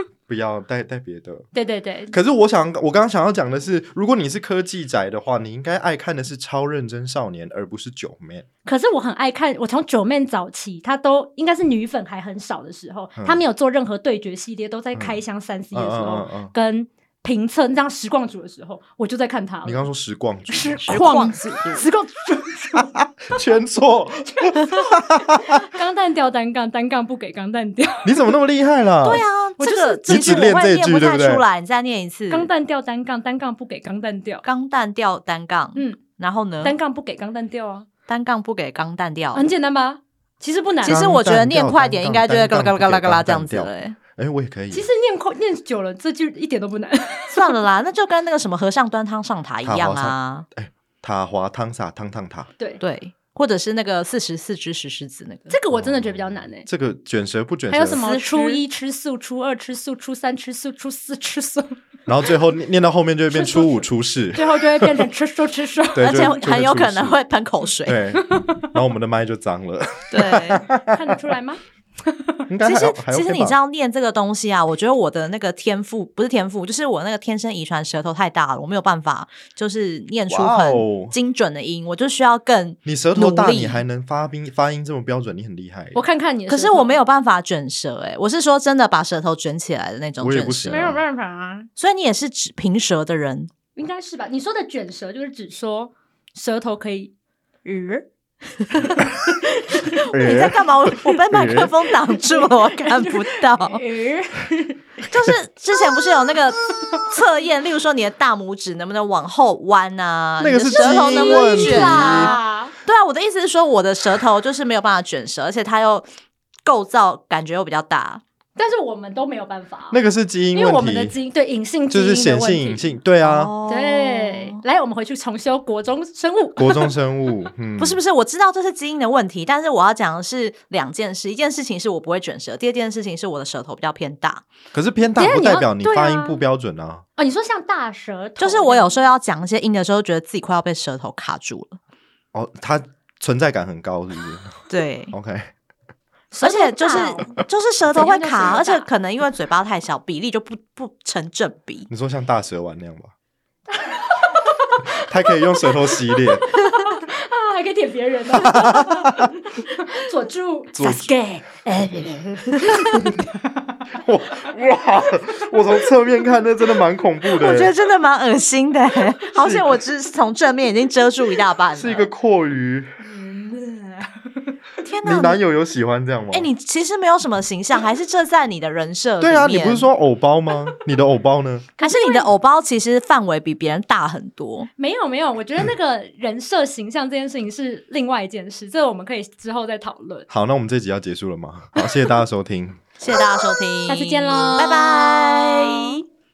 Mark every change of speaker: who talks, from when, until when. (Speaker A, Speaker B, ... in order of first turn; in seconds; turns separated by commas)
Speaker A: 0.3-1.5, Speaker B: 1.5-2.1, Speaker A: 2.1-8.4, Speaker B: 8.6-19.9, Speaker A: 13.2-13.4, Speaker A: 14.9-15.2, Speaker A: 15.7-16.5, Speaker A: 19.6-20.8, Speaker B: 20.5-22.9, Speaker C: 20.8-21.8, Speaker A: 23.2-25.6, Speaker B: 24.5-28.3, Speaker A: 28.0-29.2, Speaker C: 29.0-32.5, Speaker B: 29.6-30.5, Speaker A: 30.1-31.4, Speaker B: 32.3-34.4, Speaker C: 34.4-36.8, Speaker B: 35.7-36.0, Speaker B: 36.6-37.9, Speaker C: 38.1-39.5, Speaker B: 39.3-41.0, Speaker C: 40.8-44.0, Speaker A: 40.8-44.9, Speaker B: 44.7-47.5, Speaker C: 47.3-50.5, Speaker A: 49.6-52.5, Speaker C: 52.8-55.6, Speaker B: 55.5-56.7, Speaker A: 55.7-58.0, Speaker B: 57.7-61.8, Speaker C: 57.9-58.6, Speaker A: 62.1-65.1, Speaker B: 63.3-66.3, Speaker A: 65.9-67.2, Speaker C: 66.0-68.0, Speaker A: 67.8-71.2, Speaker B: 68.1-68.7, Speaker C: 70.1-70.6, Speaker B: 70.9-72.3, Speaker A: 72.5-73.5, Speaker C: 72.6-83.8, Speaker A: 80.3-81.1, Speaker A: 82.8-86.0, Speaker B: 85.9-86.9, Speaker C: 86.5-90.9, Speaker A: 90.2-91.0, Speaker B: 90.7-91.7, Speaker C: 91.8-93.5, Speaker B: 93.8-97.1, Speaker B: 97.6-98.1, Speaker B: 98.7-100.1, Speaker A: 100.1-100.7, Speaker C: 100.1-103.8, Speaker A: 101.3-101.7, Speaker B: 102.2-104.8, Speaker C: 105.1-116.1, Speaker A: 110.4-112.3, Speaker B: 110.7-112.7, Speaker C: 116.6-118.2, Speaker B: 118.5-120.0, Speaker A: 119.9-121.2, Speaker B: 120.5-123.0, Speaker A: 121.9-123.5, Speaker C: 123.2-124.6, Speaker B: 123.7-126.9, Speaker A: 126.6-128.0, Speaker C: 127.8-134.4, Speaker A: 134.7-137.0, Speaker B: 135.2-136.4, Speaker B: 137.2-138.9, Speaker C: 138.4-141.8, Speaker A: 142.3-144.6, Speaker C: 144.7-145.1, Speaker A: 145.1-145.5, Speaker B: 146.3-148.9, Speaker C: 146.4-151.9, Speaker A: 151.9-153.1, Speaker B: 153.7-163.4, Speaker A: 155.1-156.4, Speaker A: 158.3-159.3, Speaker A: 160.7-161.1, Speaker A: 164.0-167.7, Speaker C: 167.3-172.1, Speaker A: 169.3-169.8, Speaker A: 171.7-172.9, Speaker B: 173.0-174.2, Speaker C: 174.8-175.4, Speaker A: 175.0-176.5, Speaker C: 176.3-179.9, Speaker A: 179.2-181.7, Speaker B: 181.8-182.3, Speaker C: 181.8-184.7, Speaker B: 184.8-190.3, Speaker A: 190.3-192.8, Speaker C: 193.0-196.0, Speaker B: 193.9-195.9